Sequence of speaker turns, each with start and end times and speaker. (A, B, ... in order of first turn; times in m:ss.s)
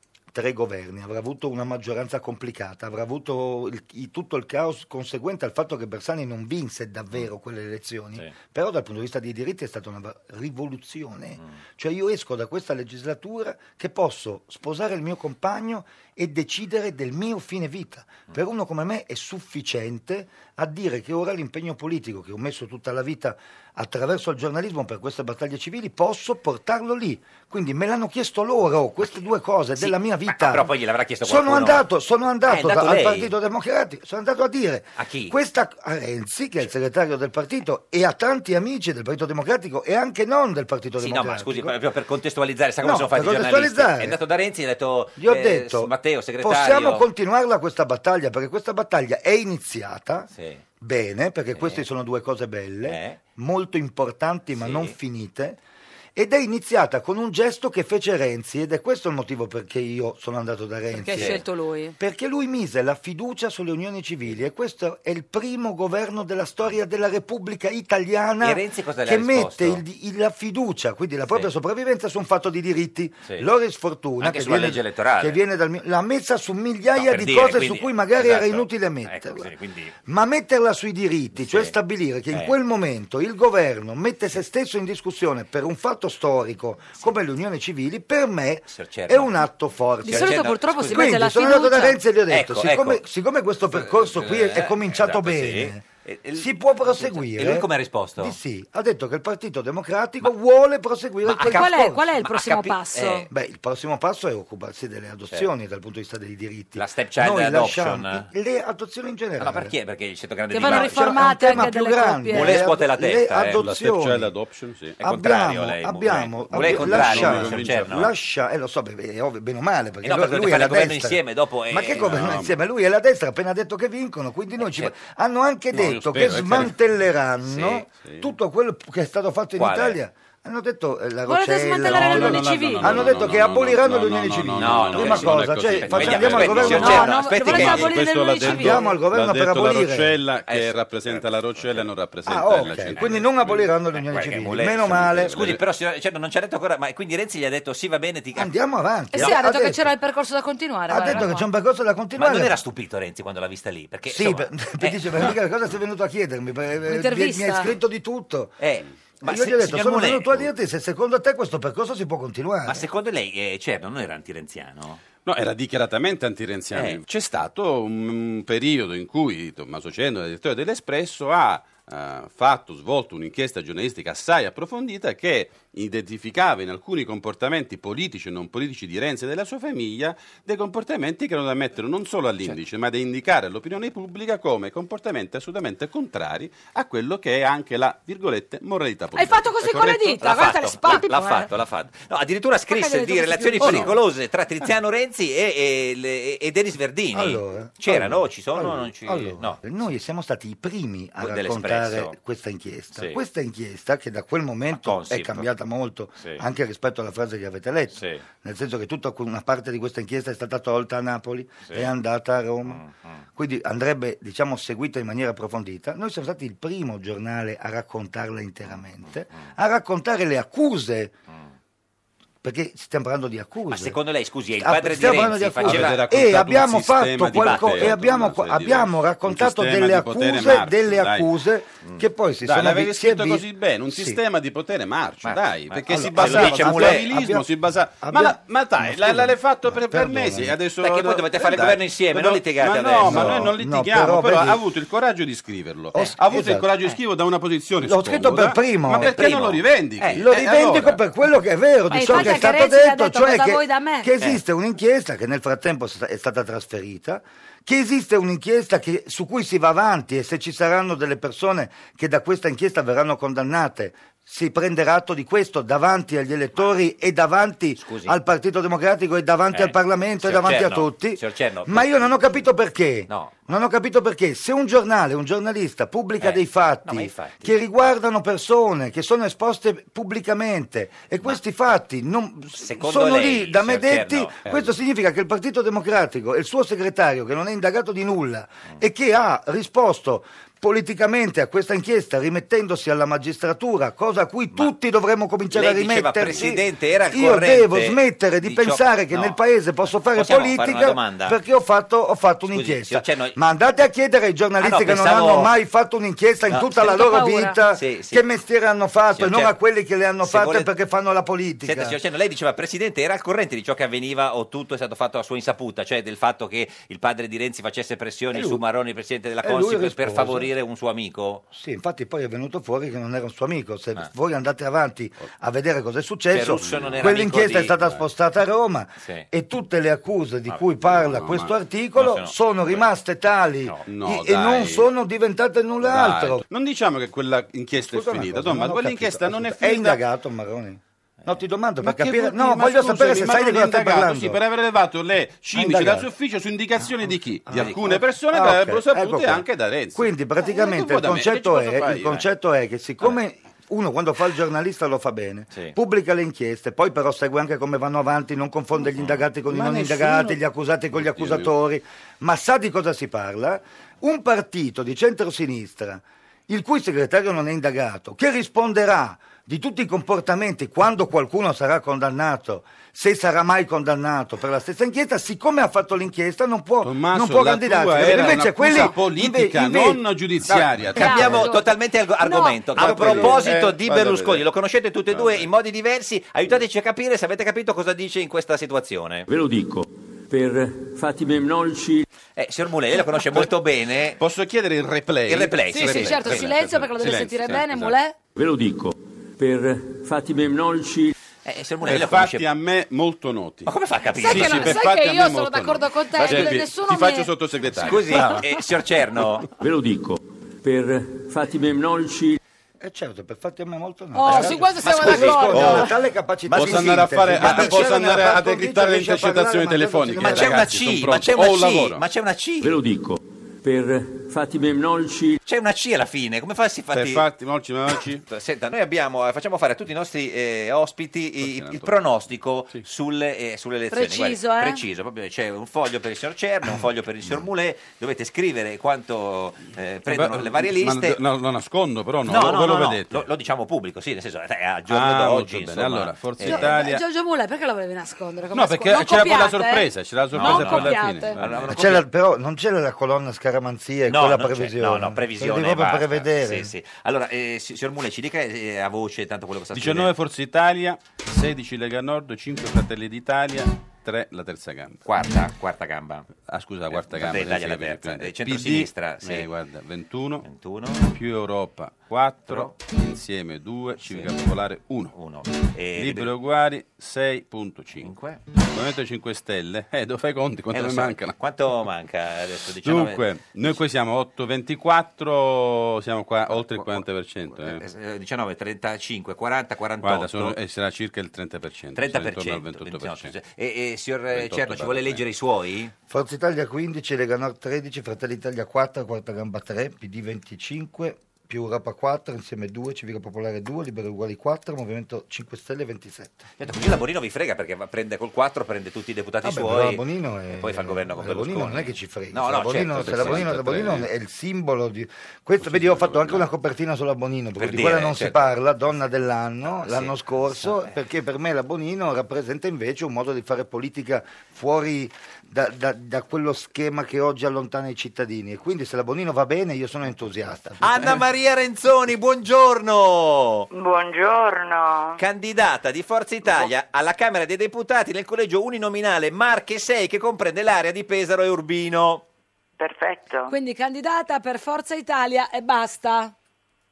0:00.3-0:30.7 A
0:29.8-0:31.8 B
0:31.2-0:41.7 A
0:32.5-0:33.3 B
0:35.0-0:35.3 B
0:41.0-0:47.0 B
0:42.8-0:44.2 A
0:45.2-0:50.3 A
0:50.3-0:50.6 B
0:50.8-0:55.6 A
0:51.6-0:51.8 B
0:52.8-0:53.2 B
0:54.5-0:54.9 B
0:56.2-1:01.4 A
1:00.9-1:02.0 C
1:01.1-1:01.4 B
1:02.0-1:19.5 A
1:08.4-1:09.8 B
1:14.2-1:15.4 B
1:16.9-1:19.9 B
1:20.0-1:35.8 A
1:21.4-1:21.7 B
1:28.7-1:29.4 B
1:30.0-1:32.0 C
1:30.1-1:31.1 B
1:32.3-1:33.0 B
1:33.6-1:38.4 B
1:36.4-1:37.7 A
1:38.2-1:42.0 A
1:41.2-1:43.3 B
1:41.3-1:43.3 C
1:43.3-1:49.7 A
1:46.8-1:48.3 B
1:49.4-1:51.7 B
1:50.5-1:52.6 C
1:50.6-1:54.3 A
1:52.3-1:53.6 B
1:53.5-1:55.0 D
1:55.0-1:58.1 B
1:55.0-2:01.2 A
1:56.5-1:58.0 D
2:00.0-2:02.4 B
2:01.7-2:17.7 A
2:02.0-2:02.5 D
2:04.6-2:04.9 B
2:05.7-2:06.7 D
2:06.3-2:06.7 B
2:07.4-2:07.8 B
2:07.9-2:08.2 D
2:09.6-2:10.0 B
2:11.2-2:13.0 C
2:11.8-2:23.7 D
2:14.6-2:18.0 B
2:16.7-2:19.0 C
2:18.4-2:20.2 A
2:20.4-2:21.9 B
2:22.3-2:25.4 A
2:22.5-2:28.5 B
2:24.8-2:25.6 D
2:28.4-2:29.9 A
2:29.1-2:31.5 C
2:30.9-2:32.5 A
2:32.2-2:35.3 B
2:34.1-2:38.6 A
2:36.9-2:37.7 C
2:38.6-2:40.5 B
2:39.2-2:42.8 A
2:42.7-2:45.0 B
2:45.2-3:10.2 D
2:46.7-2:47.0 B
3:09.1-3:11.5 C
3:09.9-3:19.6 B
3:12.7-3:13.9 C
3:17.1-3:32.8 A
3:21.2-3:22.1 B
3:24.7-3:25.5 B
3:28.0-3:28.2 B
3:32.6-3:33.2 B
3:33.4-3:41.1 A
3:42.4-3:44.0 A
3:43.7-3:46.2 B
3:44.6-3:54.2 A
3:45.6-3:51.3 D
3:47.2-3:48.1 B
3:52.4-4:11.0 D
3:55.2-3:57.2 B
3:55.9-3:57.5 A
3:58.0-4:00.5 A
4:00.8-4:03.5 B
4:03.0-4:04.6 A
4:05.9-4:06.6 A
4:07.8-4:09.2 A
4:09.0-4:10.9 B
4:10.1-5:12.0 A
4:11.9-4:14.1 C
4:12.1-4:12.4 B
4:27.8-4:28.2 B
4:29.5-4:32.4 B
4:33.1-4:33.4 B
4:36.2-4:37.6 B
4:42.5-4:44.7 B
4:55.5-4:59.4 B
5:00.1-5:01.4 B
5:02.5-5:03.4 B
5:04.6-5:05.5 B
5:06.8-5:07.6 C
5:07.7-5:08.2 B
5:09.1-5:09.5 B
5:10.2-5:10.7 B
5:11.6-5:21.4 B
5:18.3-5:18.6 A
5:19.4-5:20.5 A
5:21.5-5:36.4 A
5:26.3-5:27.8 B
5:26.6-5:27.2 D
5:29.0-5:29.2 B
5:30.8-5:31.5 D
5:32.0-5:32.8 B
5:33.6-5:33.9 B
5:33.9-5:34.9 D
5:35.8-5:40.0 D
5:37.7-5:44.4 A
5:41.8-5:52.2 D
5:45.5-5:46.1 A
5:47.1-6:20.0 A
5:47.5-5:48.0 B
5:51.9-5:52.2 B
5:59.5-6:00.4 D
6:00.9-6:01.5 D
6:16.8-6:21.2 D
6:18.0-6:18.4 B
6:20.5-6:29.3 B
6:20.9-6:22.6 C
6:22.8-6:24.0 A
6:22.8-6:24.2 D
6:25.1-6:25.5 D
6:29.3-6:32.0 E
6:32.4-6:34.2 B
6:34.2-6:38.0 D
6:35.2-6:36.5 B
6:35.7-6:38.2 C
6:38.3-6:41.1 E
6:41.4-6:42.5 B
6:41.8-6:43.7 D
6:43.6-6:44.9 B
6:44.2-6:47.3 C
6:44.2-6:48.4 D
6:46.2-6:46.6 B
6:47.7-6:49.5 B
6:49.6-6:52.4 E
6:52.8-7:00.7 A
6:54.1-6:55.9 C
6:54.8-6:55.9 B
6:56.5-7:02.0 D
6:56.6-6:56.9 B
6:57.4-6:57.9 B
7:00.2-7:02.7 B
7:02.6-7:05.4 E
7:05.4-7:07.3 B
7:06.9-7:08.2 D
7:08.2-7:21.2 B
7:11.4-7:11.9 D
7:13.9-7:14.8 C
7:20.1-7:23.2 D
7:22.2-7:26.8 B
7:24.9-7:27.0 D
7:26.4-7:31.4 C
7:28.5-7:31.8 D
7:30.3-7:32.0 B
7:31.7-7:36.7 A
7:34.1-7:40.2 B
7:39.7-7:45.0 D
7:45.0-7:46.3 B
7:46.4-7:50.4 D
7:46.9-7:49.5 B
7:50.4-7:51.1 B
7:51.1-7:55.1 D
7:52.4-7:52.8 B
7:54.0-7:54.4 B
7:55.1-7:56.4 B
7:56.0-7:58.1 D
7:58.0-7:58.4 B
7:58.7-8:01.3 D
8:00.7-8:03.8 B
8:02.8-8:07.8 D
8:06.5-8:10.6 B
8:10.0-8:13.3 D
8:11.9-8:15.9 B
8:14.3-8:15.2 D
8:16.1-8:26.4 A
8:26.6-8:34.0 B
8:29.4-8:51.2 A
8:32.9-8:34.1 D
8:35.6-8:36.4 D
8:37.6-8:38.5 B
8:39.8-8:40.9 B
8:50.8-8:53.7 B
8:53.7-8:55.2 F
8:55.2-9:02.2 B
9:02.8-9:03.5 F
9:03.5-9:06.3 C